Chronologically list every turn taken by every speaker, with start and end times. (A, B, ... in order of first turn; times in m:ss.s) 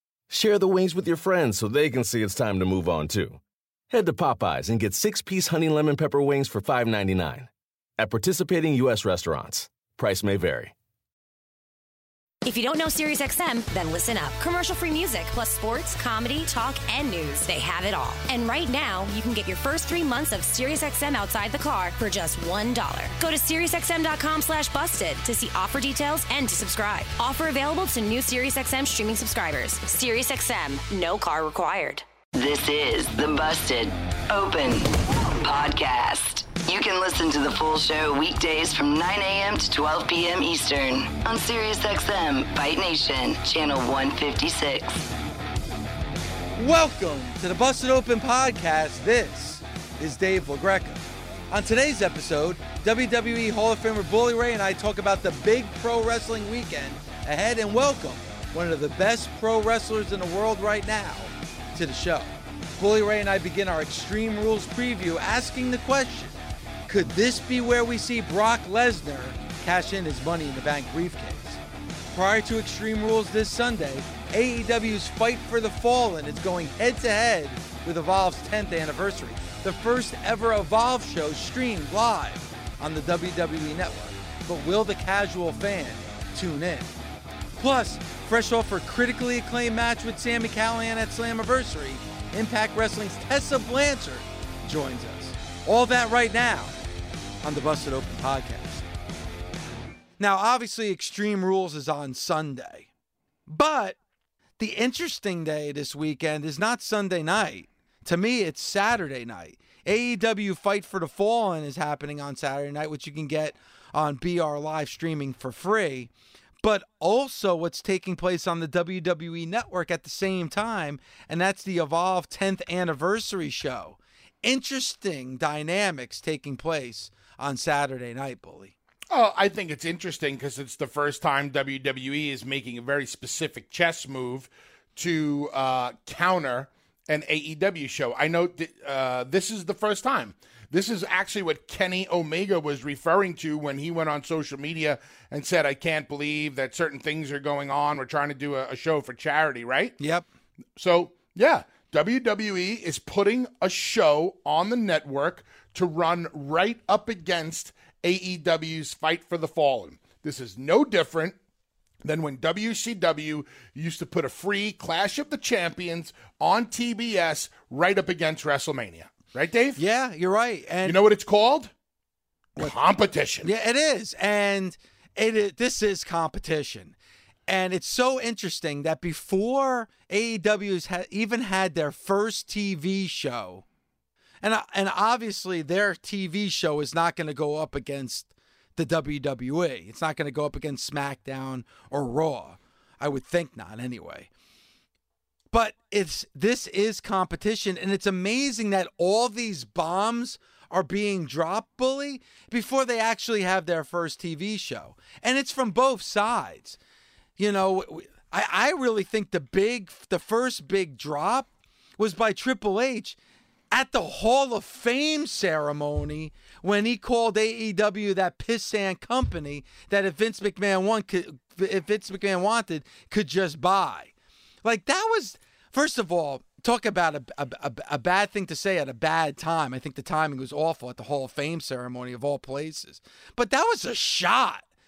0:00.3-0:10.7 A
0:12.4-0:32.0 B
0:32.3-0:45.1 C
0:46.6-1:06.4 D
1:06.9-1:11.6 D
1:12.1-1:26.9 D
1:27.6-1:36.7 D
1:37.4-1:38.8 D
1:40.2-1:42.9 D
1:43.5-1:44.0 D
1:44.6-1:56.1 D
1:56.6-2:08.7 D
2:09.1-2:30.0 E
2:30.0-2:30.2 D
2:30.8-2:41.4 E
2:42.0-2:49.8 E
2:49.8-2:51.0 D
2:50.8-2:51.7 E
2:52.6-2:53.5 E
2:53.4-2:56.9 D
2:57.5-3:03.6 D
3:04.4-3:14.3 D
3:15.5-3:26.8 D
3:27.4-3:31.5 D
3:32.0-3:33.2 D
3:33.7-3:44.1 D
3:44.6-3:54.6 D